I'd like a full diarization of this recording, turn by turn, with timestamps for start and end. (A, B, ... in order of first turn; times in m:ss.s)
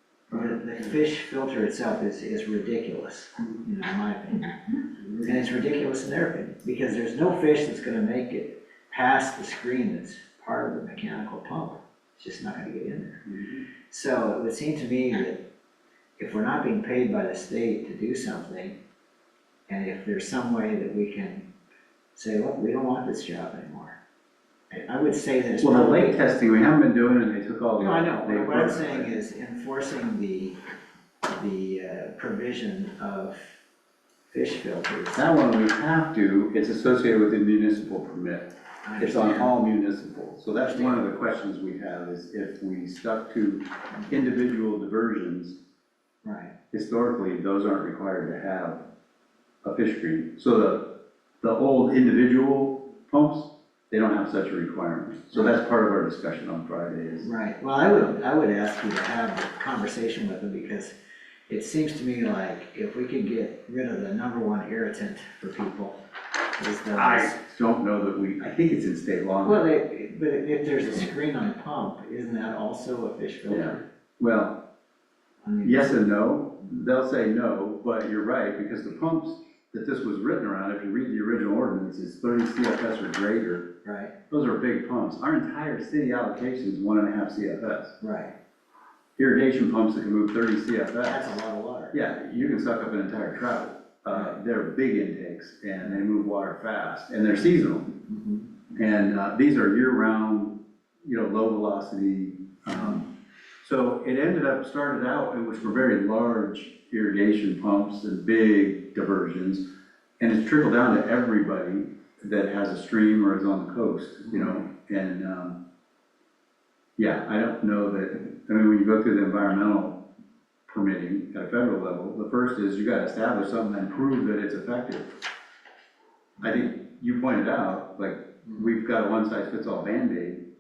0:00.3-0:13.2 A
0:13.3-0:13.6 B
0:13.9-0:15.4 A
0:16.2-0:18.8 A
0:19.7-0:21.5 A
0:22.1-0:24.0 A
0:24.7-0:26.2 A
0:25.6-0:29.1 B
0:27.8-0:30.6 A
0:31.3-0:33.4 A
0:34.3-0:35.2 A
0:35.1-0:45.6 B
0:38.8-0:39.5 A
0:40.7-0:41.2 A
0:46.2-0:46.6 A
0:46.7-0:48.8 B
0:49.6-0:57.3 B
0:57.2-1:00.9 A
1:01.5-1:06.0 A
1:06.6-1:07.4 A
1:06.9-1:09.6 B
1:09.4-1:13.8 A
1:13.5-1:14.6 B
1:15.4-1:16.0 A
1:15.6-1:23.7 B
1:23.8-1:24.1 A
1:24.3-1:28.0 B
1:28.0-1:28.3 A
1:29.2-1:31.3 B
1:31.0-1:32.0 A
1:31.9-1:38.0 B
1:38.1-1:38.5 A
1:38.7-1:43.1 B
1:43.6-1:49.7 B
1:50.2-1:55.6 B
1:57.0-2:00.0 B
2:00.7-2:05.1 B
2:06.4-2:10.4 B